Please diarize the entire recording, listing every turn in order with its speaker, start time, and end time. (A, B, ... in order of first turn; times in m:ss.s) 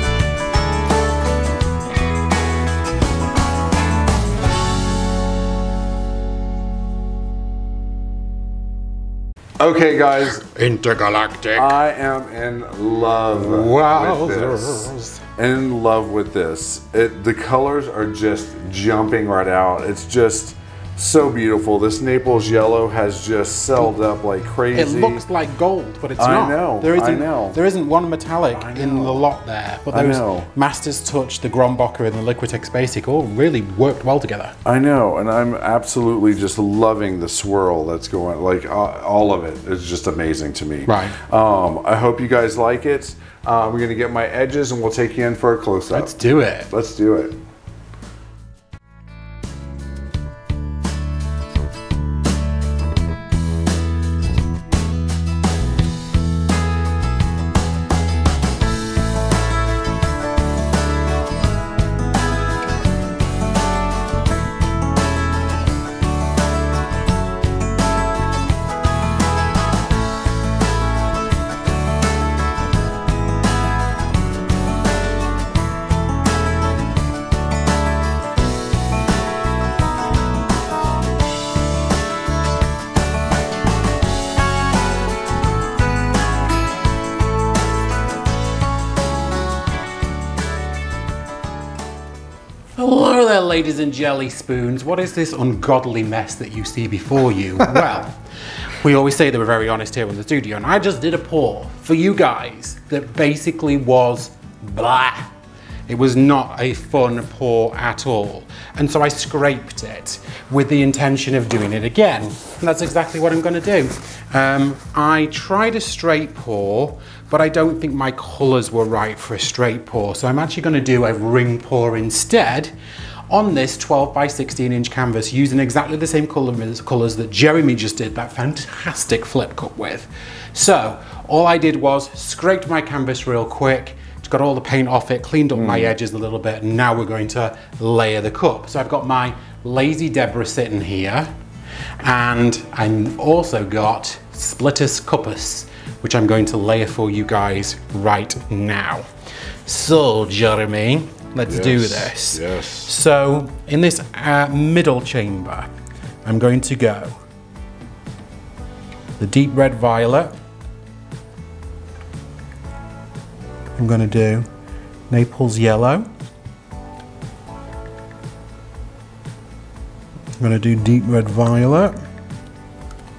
0:09.6-0:10.4 A
0:10.4-0:11.8 B
0:11.5-0:25.2 A
0:13.3-0:15.2 B
0:24.7-0:34.6 B
0:26.2-0:27.6 A
0:28.5-0:29.3 A
0:29.9-0:30.5 A
0:34.6-0:47.4 A
0:40.8-0:41.2 B
0:45.9-0:46.7 B
1:32.8-1:45.3 B
1:45.9-2:02.7 B
2:03.3-2:21.3 B
2:15.5-2:15.9 A
2:22.0-2:29.1 B
2:29.6-2:35.7 B
2:31.5-2:32.9 A
2:36.2-2:37.2 B
2:39.2-2:40.3 B
2:43.8-2:44.5 B
2:45.1-2:46.1 B
2:50.4-2:52.0 B